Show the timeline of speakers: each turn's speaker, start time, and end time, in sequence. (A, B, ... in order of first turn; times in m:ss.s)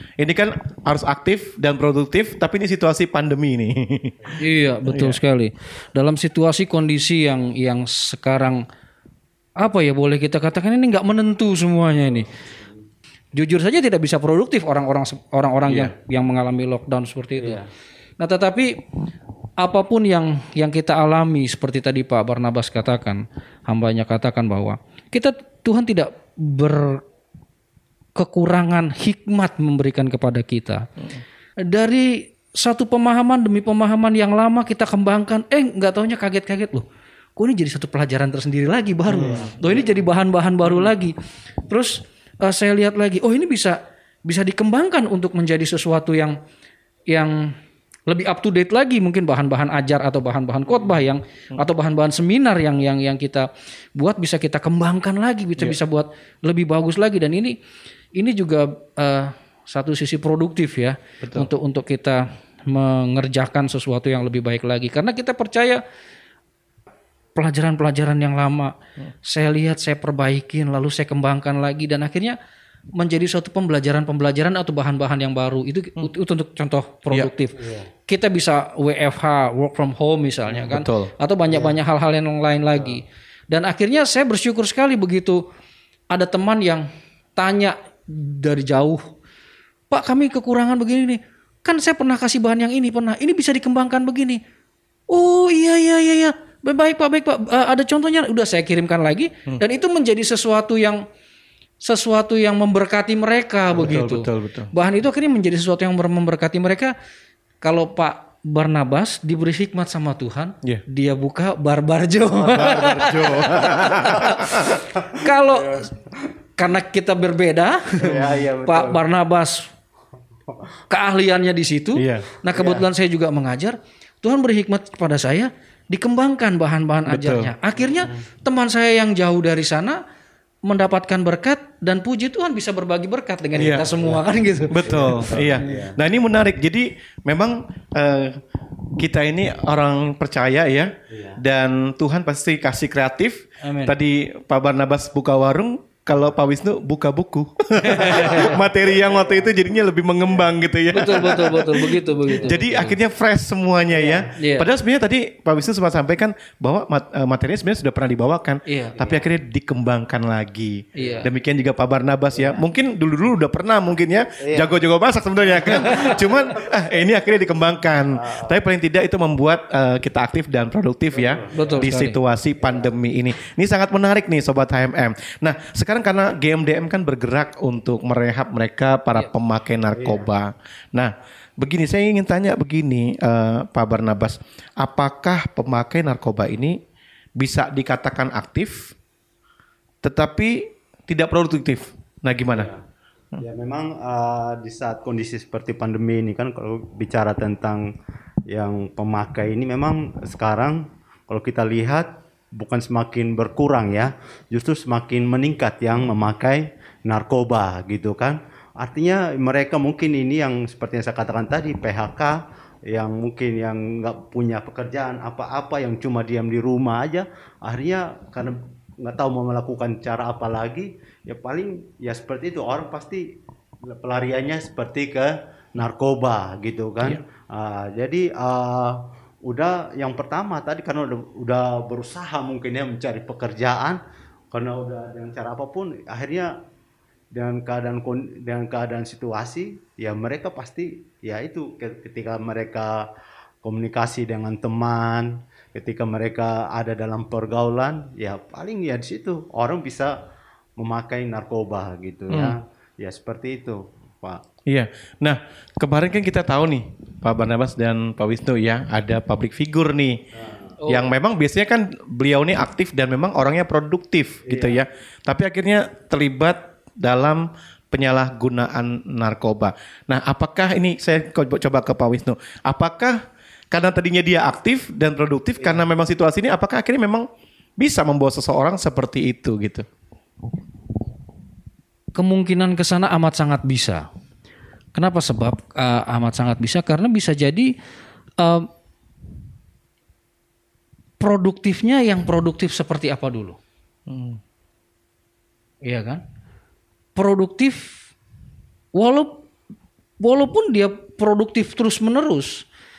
0:00.2-0:04.2 A
0:04.4-0:08.6 B
0:04.9-0:05.2 A
0:09.6-0:12.3 B
0:13.4-0:17.6 B
0:17.4-0:17.6 C
0:18.2-0:18.8 B
0:19.6-0:27.0 B
0:28.2-0:30.9 B
0:31.6-0:36.8 B
0:37.4-0:41.1 B
0:39.1-0:39.6 A
0:39.2-0:39.8 C
0:41.7-0:46.4 B
0:47.1-0:47.4 B
0:48.1-0:57.6 B
0:58.2-1:05.8 B
1:01.2-1:01.5 A
1:07.4-1:08.7 B
1:09.3-1:12.4 B
1:13.0-1:17.6 B
1:17.6-1:17.9 C
1:18.1-1:25.4 B
1:20.6-1:21.1 A
1:21.5-1:21.8 C
1:26.1-1:26.8 B
1:27.4-1:29.0 B
1:29.9-1:34.4 B
1:35.1-1:41.0 B
1:41.8-1:46.9 B
1:43.8-1:44.7 A
1:47.6-1:54.5 B
1:52.5-1:54.6 A
1:52.6-1:53.0 C
1:54.3-1:56.2 C
1:55.2-1:55.9 B
1:56.6-1:59.6 B
1:58.0-1:59.0 C
2:00.9-2:10.0 B
2:02.0-2:02.2 A
2:02.6-2:02.8 C
2:07.1-2:07.5 A
2:07.8-2:08.2 C
2:10.7-2:15.1 B
2:13.6-2:13.9 A
2:13.6-2:14.2 C
2:14.7-2:18.4 A
2:14.9-2:16.0 C
2:19.0-2:31.9 A
2:21.1-2:21.4 C
2:23.6-2:23.9 B
2:27.9-2:28.4 B
2:28.0-2:29.5 C
2:30.9-2:33.0 B
2:32.4-3:06.8 A
2:33.9-2:34.3 C
2:34.4-2:34.6 B
2:38.7-2:39.0 B
2:39.0-2:39.2 C
2:41.0-2:41.3 B
2:41.0-2:41.2 C
2:42.3-2:42.6 C
2:44.4-2:44.7 C
2:45.6-2:46.5 C
2:48.1-2:48.6 C
2:51.1-2:51.9 C
2:51.5-2:52.2 B
2:52.6-2:52.9 C
3:00.0-3:00.3 C
3:07.4-3:08.9 A
3:10.0-3:12.7 A
3:12.5-3:12.8 C
3:13.4-3:17.8 C
3:18.5-3:32.4 C
3:32.9-3:43.2 C
3:43.9-3:54.0 C
3:54.5-3:56.5 C
3:57.3-4:03.1 C
4:03.6-4:10.1 C
4:10.8-4:14.4 C
4:14.7-4:20.2 A
4:20.4-4:20.8 C
4:20.9-4:33.2 A
4:24.5-4:24.8 C
4:33.7-4:37.3 A
4:37.8-4:39.8 A
4:42.2-4:44.0 B
4:45.0-4:47.7 B
4:48.4-4:48.7 B
4:51.2-4:53.6 B
4:54.1-4:54.4 A
4:55.8-4:56.2 B
4:57.2-4:58.0 B
4:59.0-4:59.4 B
5:00.2-5:02.6 B